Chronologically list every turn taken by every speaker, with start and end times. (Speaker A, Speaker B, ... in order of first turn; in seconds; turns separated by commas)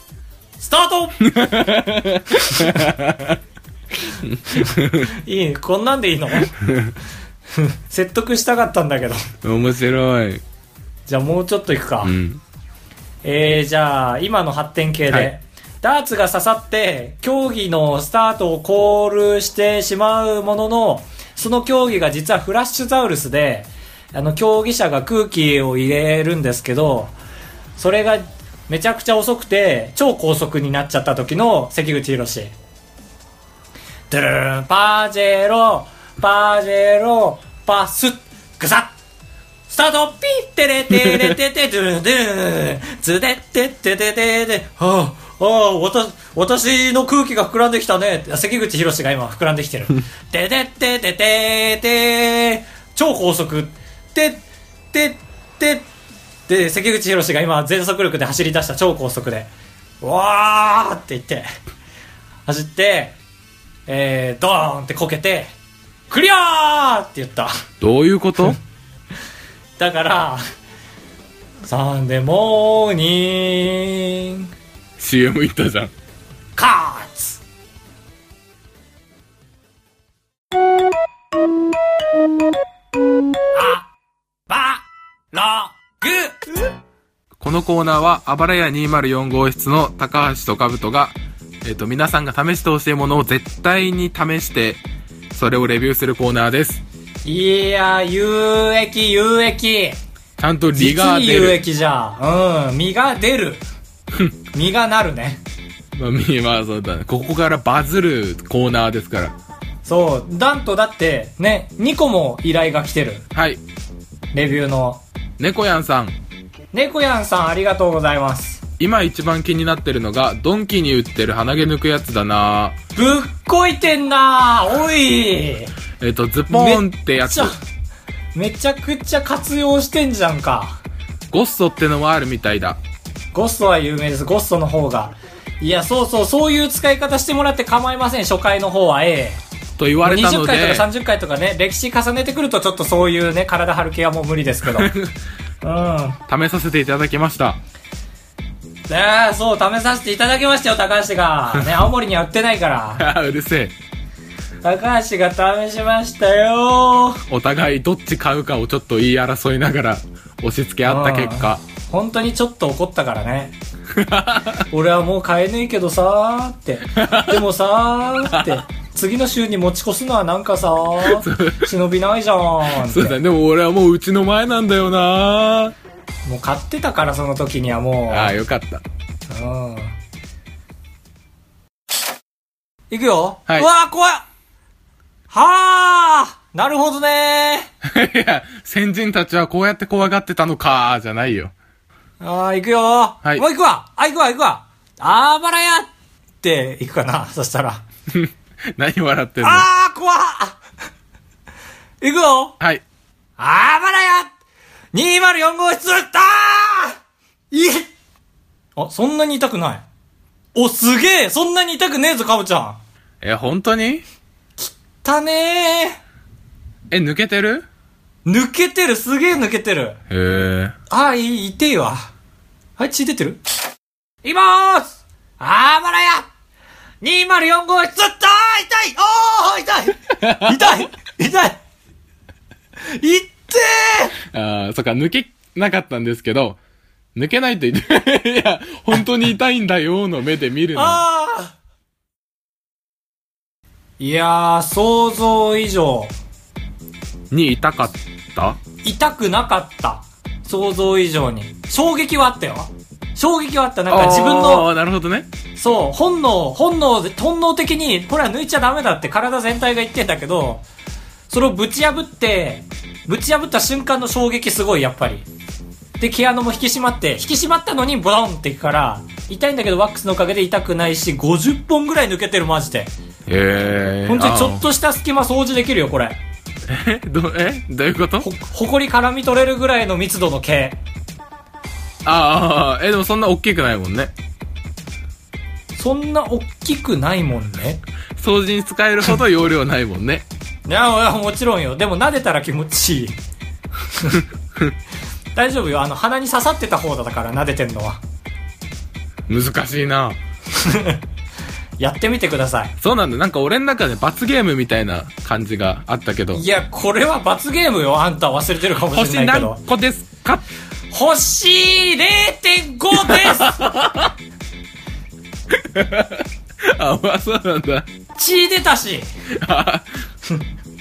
Speaker A: 0.6-1.3, Speaker B: 1.2-3.4, Speaker A: 2.4-2.8, Speaker B: 4.2-5.1, Speaker A: 4.5-6.5, Speaker B: 6.6-7.0, Speaker A: 7.5-9.3, Speaker B: 9.4-10.4, Speaker A: 11.1-12.1, Speaker B: 12.0-12.4, Speaker A: 13.2-27.1, Speaker A: 27.8-32.5, Speaker A: 34.1-39.0, Speaker A: 39.7-55.9, Speaker B: 41.0-41.3, Speaker A: 56.5-61.5, Speaker A: 62.5-63.1, Speaker A: 63.9-65.5, Speaker A: 66.1-67.5, Speaker B: 67.8-68.6, Speaker A: 69.8-70.4, Speaker A: 71.6-74.5, Speaker B: 75.0-75.9, Speaker A: 76.6-77.4, Speaker A: 83.5-83.9, Speaker A: 84.5-86.7, Speaker B: 87.4-96.8, Speaker A: 97.2-100.0, Speaker B: 100.4-101.6, Speaker A: 100.8-103.6, Speaker A: 104.5-105.4, Speaker B: 106.0-109.3, Speaker A: 109.8-113.2, Speaker B: 113.3-113.6, Speaker A: 114.3-115.0, Speaker B: 115.4-116.2, Speaker A: 116.7-118.6, Speaker B: 118.8-122.8, Speaker A: 123.0-125.7, Speaker B: 126.0-127.5, Speaker A: 126.5-127.6, Speaker A: 128.3-130.8, Speaker B: 131.3-132.8, Speaker A: 133.3-139.4, Speaker B: 139.8-140.9, Speaker A: 140.0-144.9, Speaker B: 144.7-145.1, Speaker A: 145.6-146.2, Speaker B: 146.3-147.6, Speaker A: 148.9-153.1, Speaker B: 153.0-153.7, Speaker A: 154.6-157.2, Speaker B: 157.3-161.6, Speaker A: 160.9-163.6, Speaker B: 163.9-164.6, Speaker A: 164.7-173.2, Speaker B: 166.9-167.4, Speaker B: 168.3-168.6, Speaker B: 171.0-171.7, Speaker B: 172.7-175.7, Speaker A: 176.2-178.3, Speaker B: 178.1-178.8, Speaker A: 179.3-180.0, Speaker A: 182.9-184.2, Speaker A: 185.3-187.7, Speaker B: 187.8-191.5, Speaker A: 192.2-195.9, Speaker A: 196.4-197.8, Speaker B: 198.1-199.7, Speaker A: 199.4-200.6, Speaker A: 202.0-202.6, Speaker A: 203.4-204.3, Speaker A: 204.9-207.0, Speaker A: 207.5-207.9, Speaker A: 208.8-209.8, Speaker A: 210.5-212.8, Speaker B: 213.2-214.0, Speaker A: 214.6-216.0, Speaker B: 216.9-217.7, Speaker A: 218.2-220.0, Speaker B: 220.1-220.7, Speaker A: 220.9-222.1, Speaker A: 222.8-223.4, Speaker A: 224.2-226.3, Speaker A: 227.0-231.6, Speaker B: 230.2-230.8, Speaker A: 232.9-234.2, Speaker B: 234.3-236.6, Speaker B: 237.2-241.0, Speaker A: 240.8-241.5, Speaker A: 244.0-246.1, Speaker B: 247.3-248.6, Speaker A: 248.8-254.7, Speaker B: 253.9-255.3, Speaker A: 255.6-260.6, Speaker A: 261.3-265.3, Speaker A: 266.0-272.9, Speaker B: 273.3-274.6, Speaker A: 274.1-276.2, Speaker B: 276.7-278.3, Speaker A: 278.2-280.8, Speaker B: 282.0-284.1, Speaker A: 285.8-287.8, Speaker B: 288.2-290.2, Speaker A: 290.7-293.2, Speaker A: 293.9-294.2, Speaker A: 295.3-298.0, Speaker B: 299.3-300.2, Speaker A: 300.5-301.0, Speaker A: 301.8-302.8, Speaker B: 302.8-306.4, Speaker A: 306.3-309.6, Speaker B: 308.9-310.4, Speaker A: 310.9-313.6, Speaker B: 312.9-314.1, Speaker B: 315.5-317.9, Speaker A: 318.2-319.1, Speaker B: 319.4-319.9